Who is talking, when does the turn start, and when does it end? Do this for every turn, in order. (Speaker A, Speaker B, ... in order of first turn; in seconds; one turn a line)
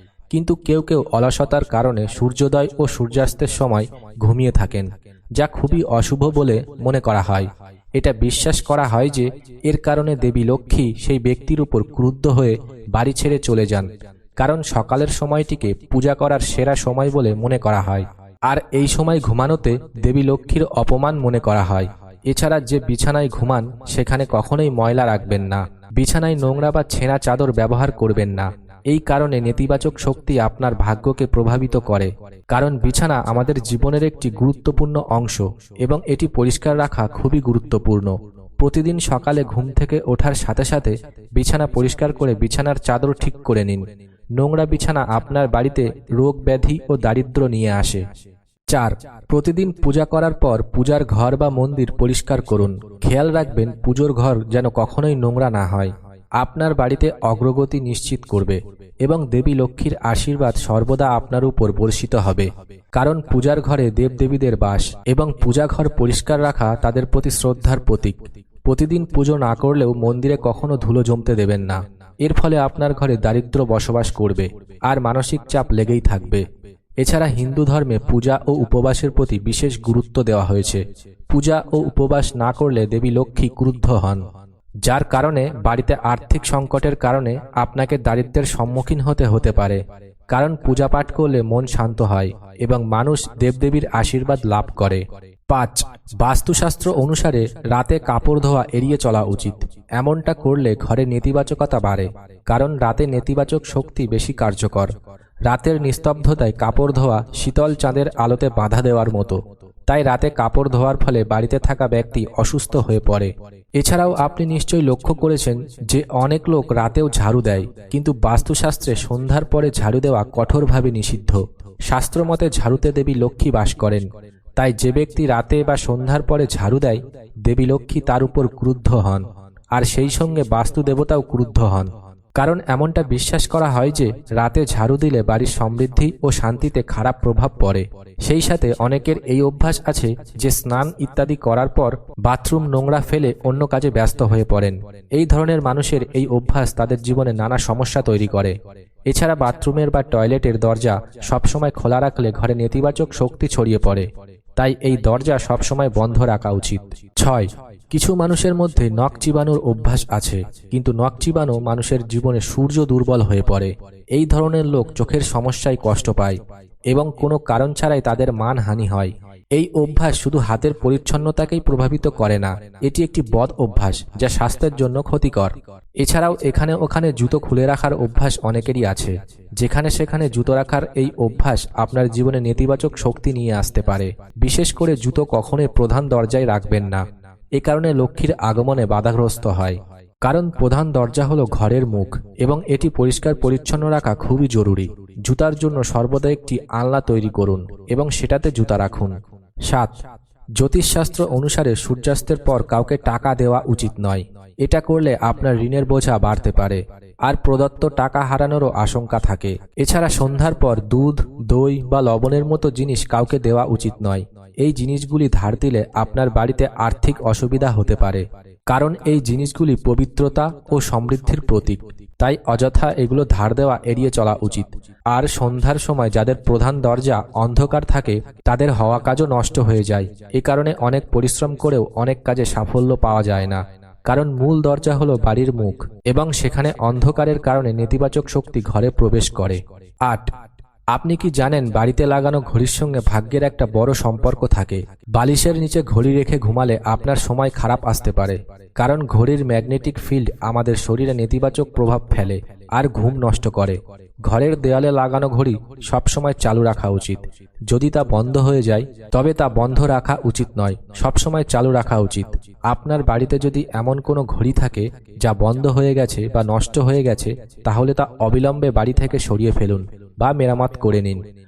Speaker A: 0.3-43.8
Speaker A: 44.4-48.0
Speaker A: 48.7-76.5
Speaker A: 77.0-84.2
Speaker A: 84.8-89.8
Speaker A: 90.3-104.9
Speaker A: 105.5-148.6
Speaker A: 149.1-166.4
Speaker A: 166.9-187.0
Speaker A: 187.6-199.2
Speaker A: 199.7-199.9
Speaker A: 200.6-240.3
Speaker A: 240.9-271.2